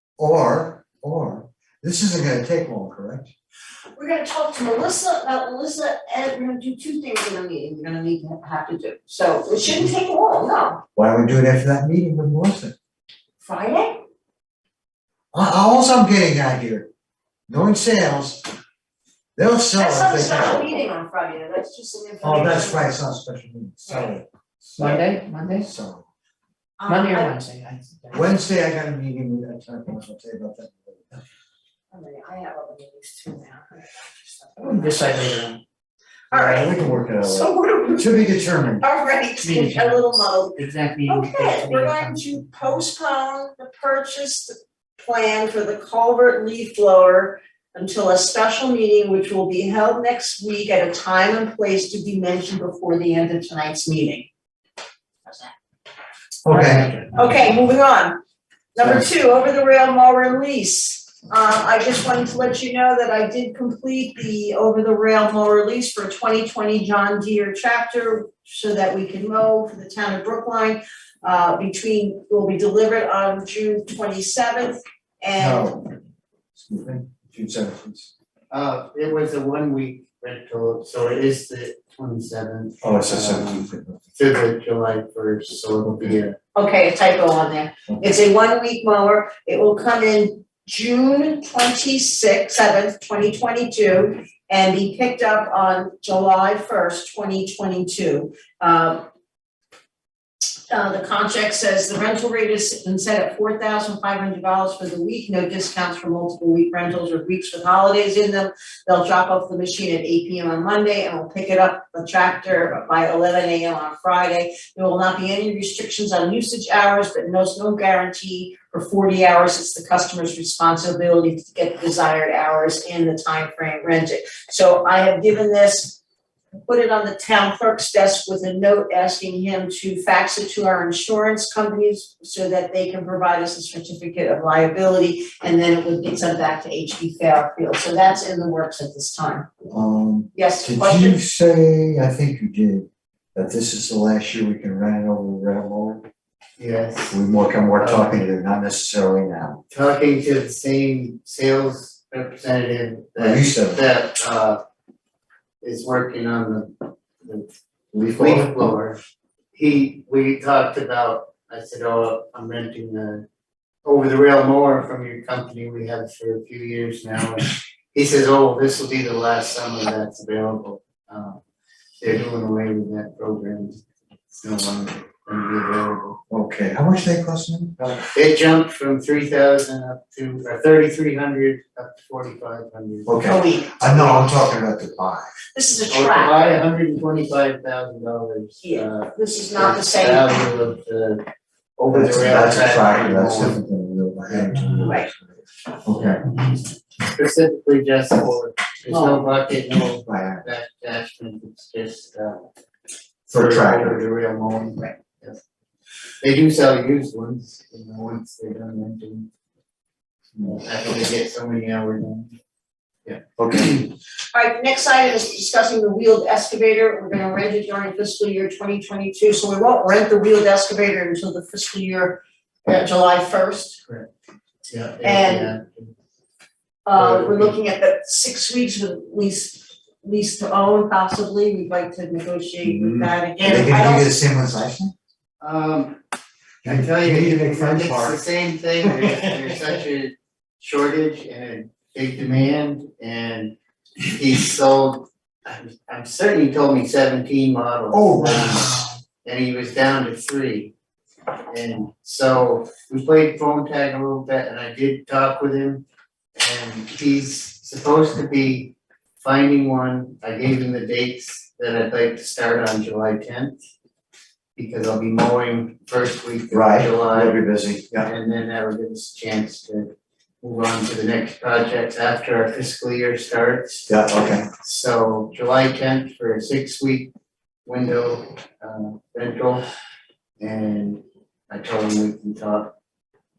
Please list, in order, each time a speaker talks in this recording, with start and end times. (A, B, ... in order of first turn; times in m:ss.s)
0:00.2-0:03.3 A
0:03.9-0:10.8 B
0:11.0-0:12.7 A
0:13.4-0:14.0 B
0:15.3-0:16.9 A
0:17.5-0:18.5 A
0:19.4-0:20.7 A
0:19.8-0:23.0 B
0:22.2-0:26.1 A
0:24.8-0:25.7 C
0:26.8-0:27.4 B
0:26.9-0:28.3 C
0:28.1-0:31.2 A
0:31.9-0:35.2 B
0:34.6-0:35.6 C
0:36.3-0:38.9 A
0:36.3-0:54.3 B
0:39.4-0:42.5 C
0:55.3-0:55.5 B
0:56.4-0:56.9 A
0:56.5-0:56.9 C
0:56.9-0:58.2 B
0:58.8-1:15.7 B
1:15.4-1:15.9 A
1:16.6-1:18.1 A
1:18.5-1:26.4 D
1:22.8-1:24.0 A
1:26.5-1:39.1 B
1:40.7-2:06.0 B
2:06.7-2:19.5 B
2:19.7-2:26.0 A
2:20.3-2:21.2 B
2:26.6-2:27.2 D
2:27.1-2:29.6 A
2:27.8-2:28.2 D
2:29.7-2:34.6 D
2:33.2-2:33.8 A
2:35.6-2:39.0 D
2:37.9-2:38.5 A
2:39.5-2:43.2 D
2:43.8-2:51.4 D
2:52.0-2:53.8 D
2:54.4-2:56.2 D
2:56.3-2:58.0 A
2:58.0-3:03.1 D
3:03.1-3:05.3 A
3:03.2-3:04.3 B
3:05.5-3:06.6 B
3:05.9-3:13.6 D
3:08.6-3:10.3 B
3:11.9-3:15.1 A
3:14.3-3:14.9 D
3:14.8-3:15.1 B
3:15.8-3:16.2 A
3:16.0-3:22.4 D
3:18.9-3:19.3 C
3:20.0-3:20.4 A
3:23.3-3:25.4 D
3:23.3-3:24.0 A
3:26.2-3:29.3 D
3:30.4-3:32.3 D
3:33.0-3:33.9 D
3:33.4-3:33.8 A
3:34.3-3:43.8 B
3:44.7-3:45.9 D
3:45.0-3:45.5 B
3:46.8-3:54.1 B
3:46.9-3:47.6 D
3:52.6-3:54.9 A
3:55.4-3:56.0 D
3:56.6-3:58.2 A
3:56.6-4:10.7 D
3:58.8-3:59.2 A
4:07.9-4:08.8 A
4:11.5-4:15.8 D
4:16.4-4:23.6 D
4:24.6-4:27.4 D
4:26.5-4:28.1 A
4:27.9-4:34.0 D
4:33.9-4:34.5 A
4:34.5-4:37.1 D
4:37.7-4:39.7 D
4:40.4-4:42.7 D